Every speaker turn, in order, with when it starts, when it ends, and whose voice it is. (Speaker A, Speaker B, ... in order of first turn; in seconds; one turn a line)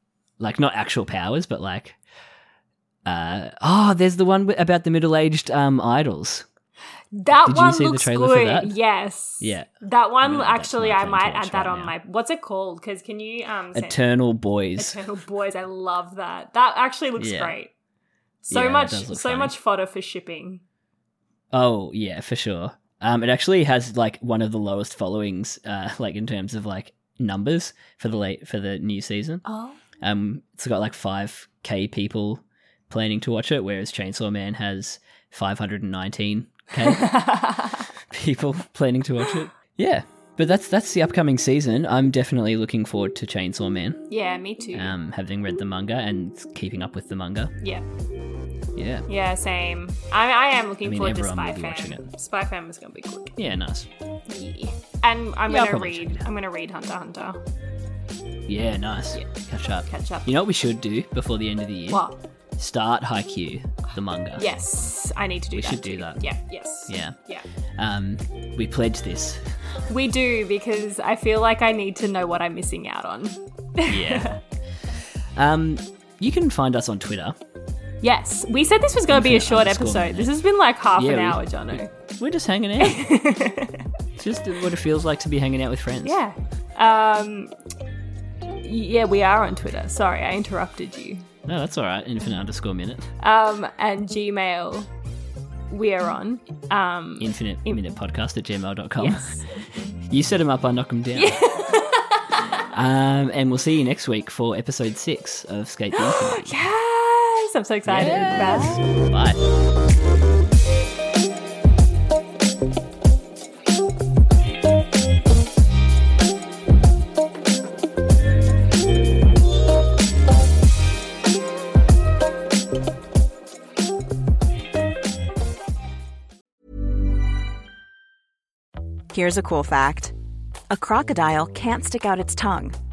Speaker A: 0.4-2.0
Speaker A: 3.0-6.5
Speaker B: 7.1-14.0
Speaker A: 7.5-8.8
Speaker A: 9.4-9.7
Speaker A: 10.2-11.9
Speaker A: 13.7-15.0
Speaker B: 14.8-17.7
Speaker A: 17.2-17.6
Speaker B: 18.5-20.6
Speaker A: 18.5-19.6
Speaker A: 21.5-29.4
Speaker B: 29.4-29.8
Speaker A: 30.0-37.3
Speaker B: 36.9-37.8
Speaker A: 38.1-44.0
Speaker B: 44.1-44.9
Speaker A: 44.7-47.5
Speaker A: 48.8-49.1
Speaker B: 49.1-53.4
Speaker A: 50.8-52.1
Speaker A: 53.4-53.9
Speaker B: 54.3-57.4
Speaker A: 55.5-56.3
Speaker A: 58.5-62.0
Speaker B: 59.9-60.3
Speaker B: 61.9-62.2
Speaker A: 62.6-64.5
Speaker B: 64.4-67.5
Speaker A: 65.5-66.3
Speaker A: 66.9-67.2
Speaker A: 67.8-69.4
Speaker B: 69.9-74.4
Speaker A: 73.9-74.3
Speaker A: 75.4-77.4
Speaker B: 78.0-81.9
Speaker A: 79.1-80.3
Speaker A: 81.0-83.0
Speaker B: 82.8-83.9
Speaker A: 84.2-86.2
Speaker B: 86.0-87.5
Speaker B: 88.6-91.3
Speaker A: 91.5-93.1
Speaker B: 93.2-94.9
Speaker B: 95.7-97.8
Speaker A: 97.2-101.5
Speaker B: 99.0-99.4
Speaker B: 101.2-102.4
Speaker A: 102.7-106.5
Speaker B: 106.0-108.8
Speaker A: 107.9-109.4
Speaker C: 129.1-130.1
Speaker C: 130.7-132.8